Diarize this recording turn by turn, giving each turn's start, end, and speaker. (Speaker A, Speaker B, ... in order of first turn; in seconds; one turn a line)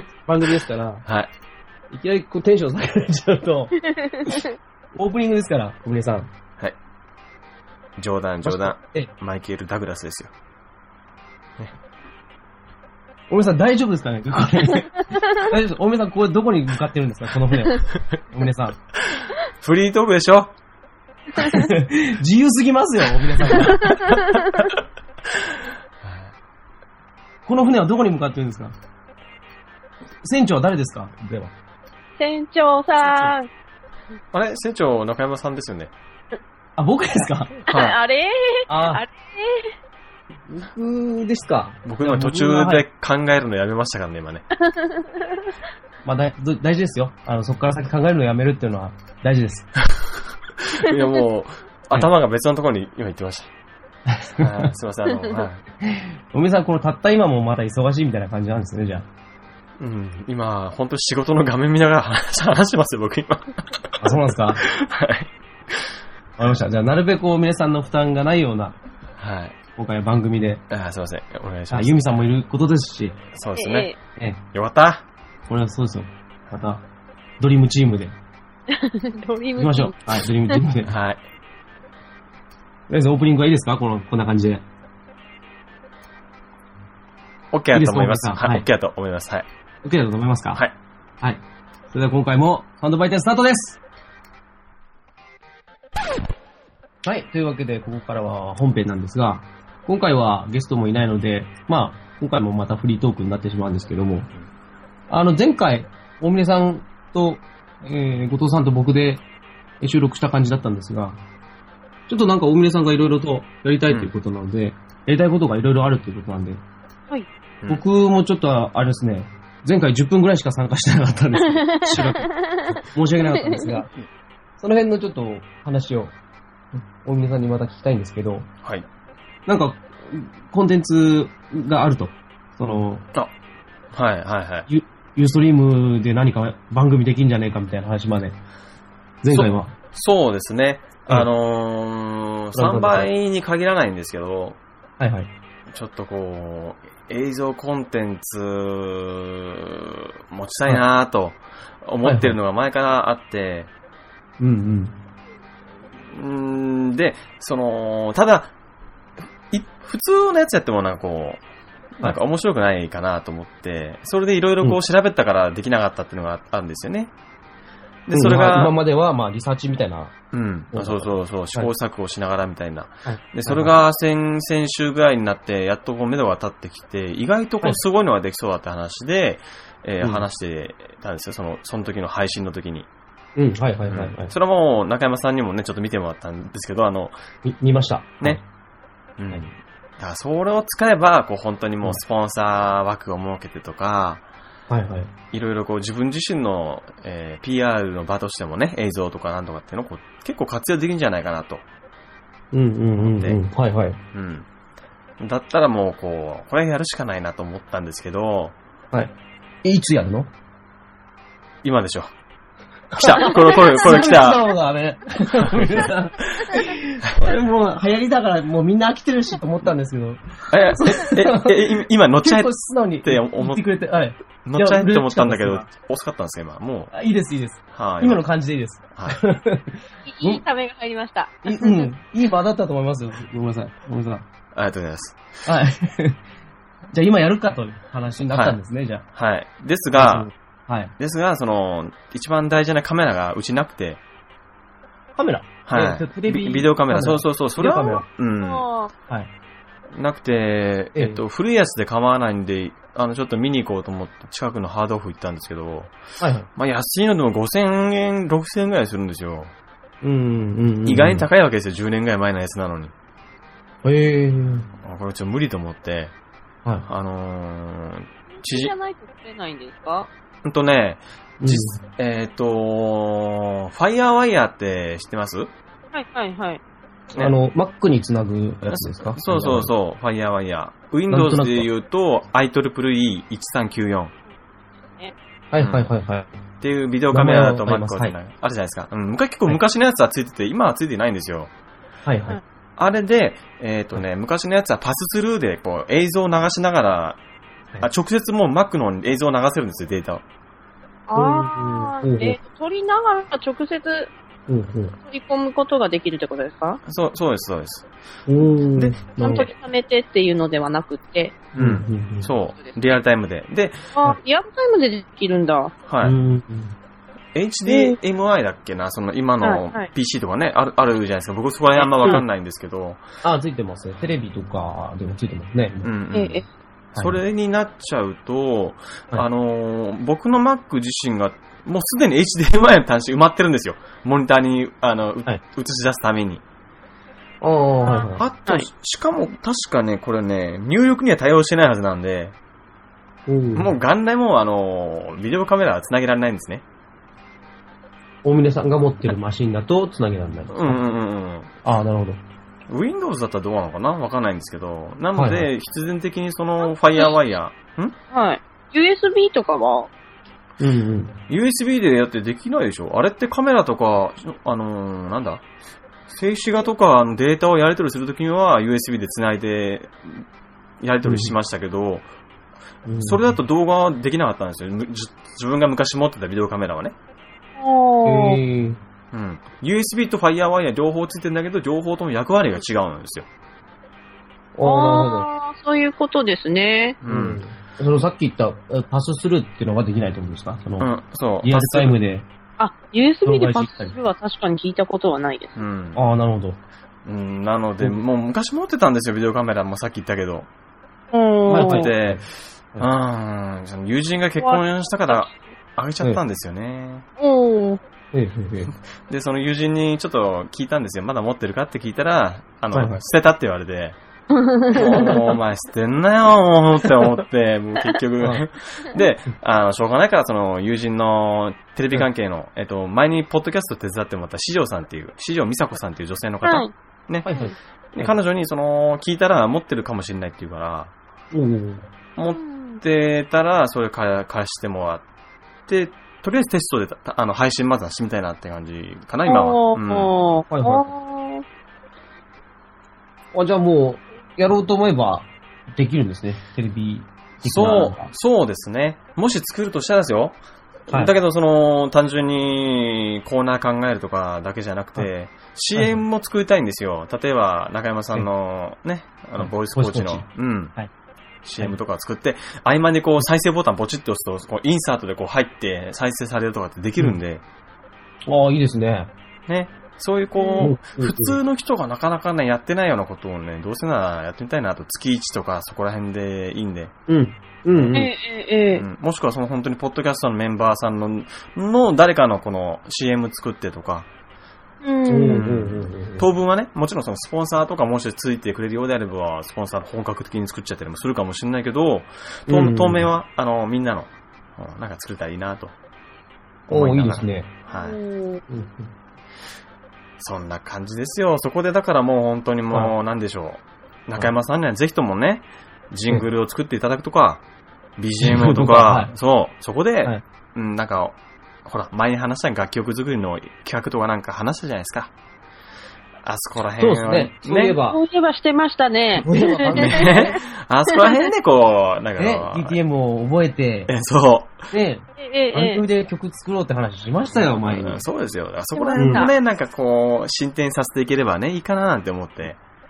Speaker A: 0.2-1.1
Speaker B: 1.1-1.3
Speaker A: 1.9-3.8
Speaker C: 4.0-4.5
Speaker A: 5.0-6.3
Speaker B: 8.0-10.3
Speaker A: 8.4-9.1
Speaker A: 13.3-18.8
Speaker B: 19.1-20.5
Speaker A: 21.4-24.0
Speaker B: 23.6-24.1
Speaker B: 25.4-26.3
Speaker A: 27.5-28.7
Speaker A: 30.2-31.5
Speaker C: 32.2-33.5
Speaker B: 33.0-33.3
Speaker B: 34.3-35.9
Speaker A: 36.8-37.7
Speaker B: 37.7-38.0
Speaker C: 37.7-39.8
Speaker A: 38.7-39.0
Speaker A: 40.5-42.8
Speaker B: 41.8-44.5
Speaker C: 44.6-45.5
Speaker A: 46.0-49.7
Speaker B: 50.6-53.5
Speaker A: 54.1-54.6
Speaker B: 54.4-55.7
Speaker A: 55.8-59.1
Speaker B: 59.8-66.0
Speaker A: 64.0-64.6
Speaker A: 66.4-68.8
Speaker B: 69.2-69.6
Speaker A: 69.8-70.6
Speaker B: 70.7-72.0
Speaker A: 71.7-73.2
Speaker B: 73.3-73.9
Speaker C: 73.6-74.0
Speaker B: 74.5-75.0
Speaker A: 75.5-76.8
Speaker A: 77.4-78.2
Speaker C: 78.7-80.5
Speaker A: 79.6-80.9
Speaker B: 80.9-81.2
Speaker A: 82.9-84.6
Speaker B: 87.5-89.5
Speaker A: 87.7-88.7
Speaker A: 89.8-90.6
Speaker A: 91.2-93.8
Speaker A: 97.0-104.3
Speaker A: 105.1-109.2
Speaker A: 109.8-111.2
Speaker A: 112.1-116.6
Speaker A: 117.7-123.9
Speaker C: 121.5-122.7
Speaker C: 123.3-123.8
Speaker A: 124.6-126.1
Speaker A: 127.0-128.5
Speaker A: 129.5-133.1
Speaker B: 133.9-134.7
Speaker A: 134.7-138.4
Speaker A: 139.2-139.7
Speaker B: 139.3-144.6
Speaker A: 142.6-143.1
Speaker A: 145.0-145.3
Speaker B: 145.7-153.7
Speaker A: 152.0-152.3
Speaker A: 154.4-154.9
Speaker B: 156.1-158.5
Speaker B: 159.5-161.4
Speaker B: 162.0-167.1
Speaker B: 168.1-168.7
Speaker A: 168.1-170.2
Speaker B: 170.3-182.9
Speaker A: 170.7-171.7
Speaker A: 173.1-173.7
Speaker A: 183.4-184.3
Speaker B: 183.9-187.2
Speaker A: 187.4-188.4
Speaker B: 189.2-194.2
Speaker A: 194.7-195.1
Speaker B: 195.3-201.7
Speaker A: 202.5-204.0
Speaker B: 203.0-203.4
Speaker B: 204.1-204.5
Speaker B: 205.2-208.6
Speaker A: 209.6-210.3
Speaker B: 211.6-212.1
Speaker B: 212.9-214.5
Speaker A: 213.1-225.7
Speaker B: 215.5-215.9
Speaker B: 220.5-222.5
Speaker B: 223.0-223.6
Speaker B: 224.4-226.9
Speaker A: 226.9-230.4
Speaker B: 227.7-228.2
Speaker C: 230.1-231.9
Speaker A: 231.4-234.2
Speaker B: 234.5-235.2
Speaker A: 235.5-236.2
Speaker A: 236.9-239.1
Speaker B: 238.3-238.6
Speaker B: 239.1-240.3
Speaker A: 239.9-240.9
Speaker B: 241.0-244.0
Speaker A: 245.2-248.1
Speaker B: 245.7-248.7
Speaker C: 248.4-248.9
Speaker B: 249.9-255.9
Speaker A: 256.2-256.5
Speaker B: 256.6-259.5
Speaker A: 260.0-261.2
Speaker B: 260.9-262.9
Speaker A: 263.8-264.7
Speaker B: 264.8-266.1
Speaker B: 266.9-268.7
Speaker C: 268.4-270.1
Speaker B: 270.4-275.5
Speaker A: 271.4-271.8
Speaker C: 275.9-276.6
Speaker A: 277.2-279.7
Speaker B: 278.7-284.1
Speaker A: 281.1-281.7
Speaker A: 285.5-286.3
Speaker B: 285.6-285.9
Speaker B: 286.6-291.5
Speaker A: 287.1-288.1
Speaker A: 292.0-292.4
Speaker B: 292.8-297.2
Speaker B: 297.8-300.2
Speaker C: 301.1-304.1
Speaker A: 301.1-302.4
Speaker A: 304.5-305.0
Speaker C: 305.1-306.8
Speaker B: 306.9-307.9
Speaker A: 308.3-309.5
Speaker C: 309.1-311.4
Speaker B: 311.5-313.9
Speaker A: 311.6-312.3
Speaker C: 312.6-313.0
Speaker C: 313.9-315.7
Speaker B: 315.9-316.2
Speaker A: 316.0-316.8
Speaker B: 317.3-323.0
Speaker C: 317.7-317.9
Speaker C: 319.4-319.9
Speaker C: 321.9-322.2
Speaker A: 323.2-325.9
Speaker B: 325.8-326.4
Speaker C: 326.1-326.5
Speaker B: 326.9-336.4
Speaker A: 337.4-338.2
Speaker C: 337.8-338.7
Speaker B: 338.2-342.4
Speaker A: 343.3-343.7
Speaker B: 343.6-346.6
Speaker A: 348.2-350.8
Speaker B: 350.5-351.5
Speaker A: 351.6-352.2
Speaker B: 352.7-358.0
Speaker A: 355.1-355.5
Speaker C: 358.1-359.9
Speaker A: 360.6-361.2
Speaker B: 361.3-365.4
Speaker B: 366.1-370.2
Speaker B: 370.8-372.1
Speaker A: 371.0-371.3
Speaker A: 372.9-373.3
Speaker B: 373.0-376.9
Speaker C: 377.6-378.4
Speaker A: 378.1-378.8
Speaker B: 379.1-383.3
Speaker A: 384.6-385.3
Speaker C: 384.6-387.0
Speaker B: 387.0-387.4
Speaker A: 387.1-390.9
Speaker B: 390.8-392.0
Speaker A: 391.4-392.3
Speaker C: 392.6-395.6
Speaker A: 393.2-394.0
Speaker B: 395.6-396.0
Speaker A: 395.9-396.6
Speaker B: 397.1-400.5
Speaker C: 401.1-401.9
Speaker A: 401.5-402.2
Speaker B: 401.6-407.1
Speaker C: 404.4-405.4
Speaker C: 407.2-407.8
Speaker A: 408.1-408.7
Speaker B: 409.1-414.0
Speaker A: 412.7-413.0
Speaker C: 414.3-415.2
Speaker B: 414.7-427.3
Speaker C: 426.4-426.7
Speaker A: 427.2-428.1
Speaker B: 427.9-430.9
Speaker A: 431.3-431.9
Speaker B: 432.2-435.0
Speaker C: 432.3-432.8
Speaker B: 435.7-440.1
Speaker C: 439.3-441.4
Speaker A: 440.5-440.9
Speaker A: 443.3-448.1
Speaker B: 447.4-460.8
Speaker A: 455.8-456.0
Speaker A: 459.4-460.9
Speaker B: 461.4-467.4
Speaker A: 468.3-469.1
Speaker B: 469.5-476.9
Speaker C: 470.4-470.7
Speaker A: 470.6-471.4
Speaker A: 477.1-478.1
Speaker B: 477.7-478.0
Speaker C: 477.9-478.9
Speaker B: 478.8-484.1
Speaker C: 484.8-485.4
Speaker A: 485.1-486.3
Speaker B: 485.3-495.8
Speaker A: 492.5-493.1
Speaker B: 496.7-498.0
Speaker A: 496.7-497.5
Speaker C: 497.7-498.4
Speaker A: 498.5-498.9
Speaker B: 500.2-507.4
Speaker B: 508.0-515.1
Speaker A: 508.2-509.1
Speaker B: 516.2-517.8
Speaker A: 516.8-518.0
Speaker C: 517.9-520.4
Speaker A: 519.2-520.4
Speaker B: 519.7-522.8
Speaker C: 520.9-521.2
Speaker A: 522.2-523.9
Speaker B: 523.9-524.7
Speaker A: 524.7-528.0
Speaker C: 525.2-525.8
Speaker B: 527.3-532.6
Speaker C: 528.8-529.3
Speaker A: 529.0-529.3